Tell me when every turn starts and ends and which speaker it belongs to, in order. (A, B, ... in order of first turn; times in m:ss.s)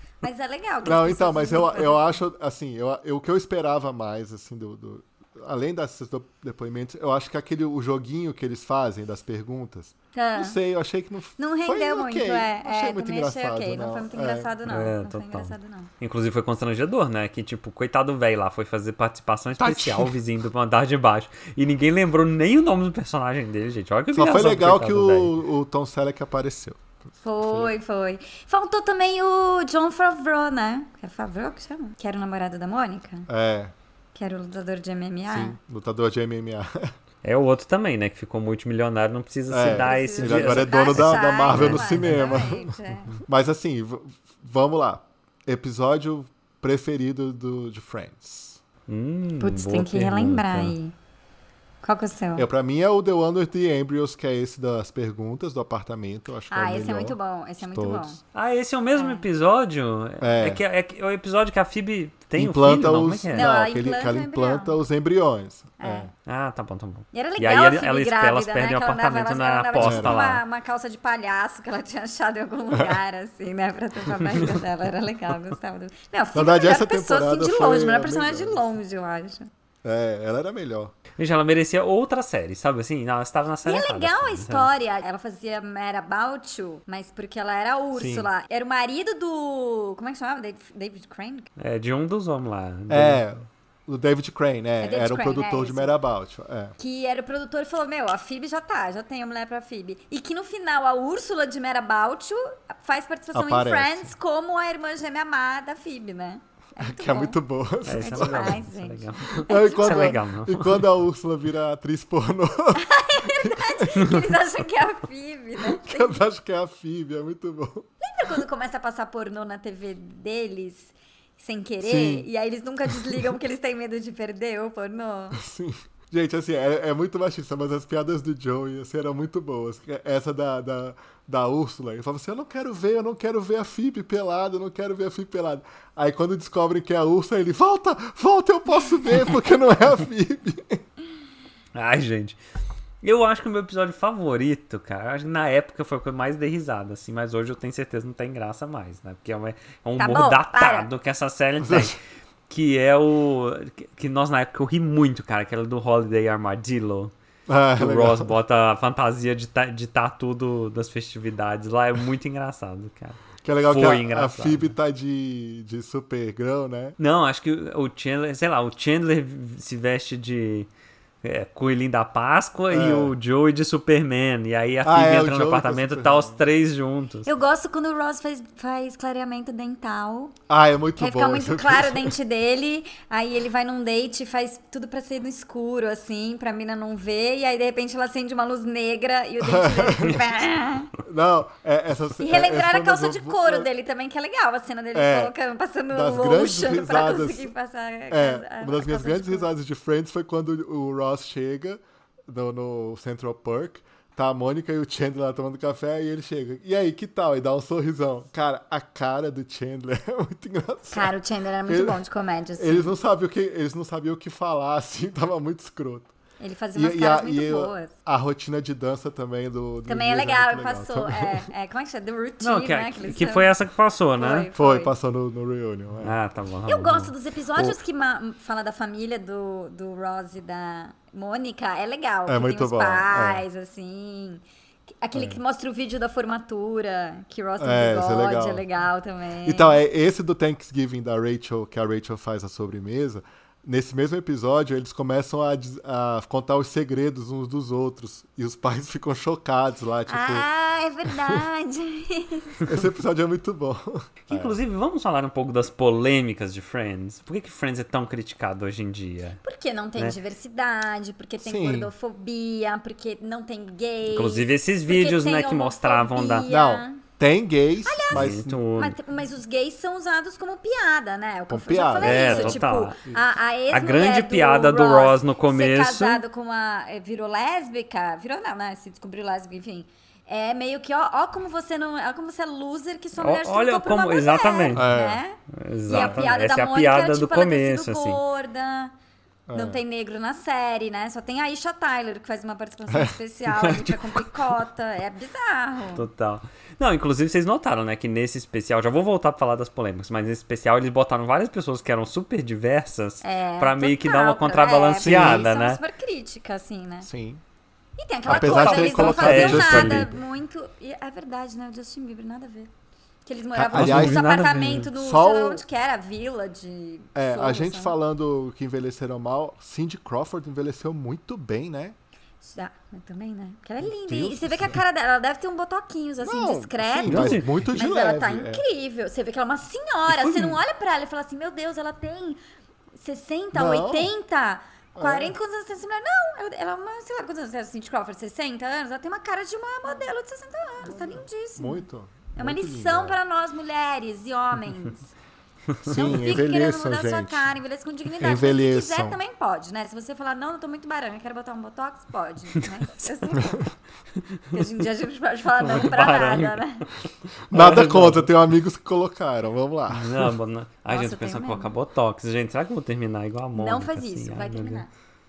0:00.2-0:02.1 A
0:00.8-0:14.5 B
0:10.1-0:10.6 A
0:11.4-0:15.9 A
0:14.6-0:25.3 C
0:19.6-0:20.1 B
0:24.1-0:26.8 B
0:27.2-0:33.3 A
0:27.4-0:27.7 B
0:33.3-0:33.7 B
0:34.1-0:35.6 A
0:35.3-0:36.9 B
0:37.2-0:42.2 C
0:39.5-0:48.6 B
0:39.7-0:43.2 A
0:48.9-0:50.7 C
0:49.4-0:50.9 A
0:51.8-0:52.5 A
0:52.4-0:58.1 B
0:56.5-0:58.2 A
0:58.3-1:03.5 C
0:58.9-0:59.2 A
1:00.2-1:00.6 B
1:02.4-1:06.1 B
1:03.3-1:04.8 A
1:05.8-1:06.1 A
1:06.2-1:10.4 C
1:07.1-1:19.5 A
1:09.8-1:10.2 B
1:12.7-1:13.0 B
1:16.3-1:18.7 B
1:19.8-1:20.9 B
1:21.2-1:24.7 C
1:23.6-1:31.5 A
1:27.9-1:28.3 B
1:31.6-1:33.2 C
1:32.9-1:36.7 B
1:34.8-1:35.9 A
1:36.8-1:47.4 A
1:43.3-1:44.1 B
1:46.8-1:48.6 B
1:47.8-1:50.9 C
1:48.0-1:50.2 A
1:49.4-1:54.2 B
1:52.7-1:56.2 A
1:55.7-1:57.9 B
1:58.0-2:05.4 A
2:01.8-2:02.3 B
2:05.4-2:20.8 B
2:21.7-2:22.4 C
2:23.0-2:37.1 C
2:30.0-2:30.9 A
2:31.6-2:31.9 B
2:37.5-2:38.3 B
2:37.8-2:44.7 C
2:43.4-2:47.0 B
2:47.0-2:50.7 C
2:51.2-2:57.3 C
2:52.7-2:53.1 B
2:54.8-2:56.4 B
2:57.2-3:00.3 A
3:00.5-3:02.2 B
3:01.0-3:10.9 A
3:09.4-3:10.4 B
3:11.0-3:13.7 B
3:12.2-3:19.5 A
3:14.9-3:15.3 B
3:15.9-3:17.5 B
3:18.1-3:31.1 B
3:30.9-3:32.9 A
3:31.7-3:32.0 B
3:32.6-3:36.1 B
3:36.4-3:37.9 A
3:36.7-3:41.5 B
3:39.9-3:43.6 A
3:42.4-3:44.5 C
3:44.2-3:44.9 A
3:44.5-3:46.1 B
3:46.0-3:47.1 C
3:46.7-3:54.4 A
3:52.3-3:53.4 B
3:55.0-3:59.8 A
3:55.1-3:55.4 B
3:57.6-3:58.6 B
3:59.4-4:10.5 B
4:10.1-4:12.6 A
4:11.0-4:11.4 B
4:12.6-4:14.6 B
4:14.3-4:19.4 C
4:19.4-4:27.0 A
4:21.4-4:21.9 B
4:24.0-4:26.5 C
4:26.5-4:28.6 B
4:27.8-4:48.9 A
4:28.1-4:29.0 C
4:31.5-4:33.2 B
4:32.0-4:33.0 C
4:33.7-4:36.2 C
4:43.2-4:44.9 C
4:44.7-4:45.2 B
4:45.5-4:48.2 C
4:45.9-4:46.3 B
4:49.5-4:49.8 B
4:49.5-4:56.0 A
4:52.9-4:53.9 B
4:55.9-5:05.8 C
5:03.2-5:07.1 A
5:05.0-5:05.5 B
5:07.0-5:07.4 B
5:08.0-5:12.7 A
5:08.3-5:10.1 B
5:08.3-5:10.1 C
5:13.2-5:18.0 A
5:13.6-5:15.6 B
5:13.6-5:14.9 C
5:17.1-5:21.9 B
5:22.4-5:32.4 A
5:23.8-5:24.8 B
5:26.2-5:28.6 B
5:27.0-5:27.8 C
5:30.2-5:30.5 C
5:33.0-5:45.1 A
5:33.5-5:34.1 B
5:34.9-5:35.4 B
5:40.8-5:43.2 B
5:45.8-5:47.5 B
5:45.9-5:53.7 A
5:48.2-5:49.2 B
5:54.5-5:56.9 A
5:55.6-5:56.6 C
5:57.5-5:58.3 C
5:57.5-6:00.3 B
5:59.9-6:04.8 C
6:00.9-6:01.7 A
6:03.6-6:04.9 A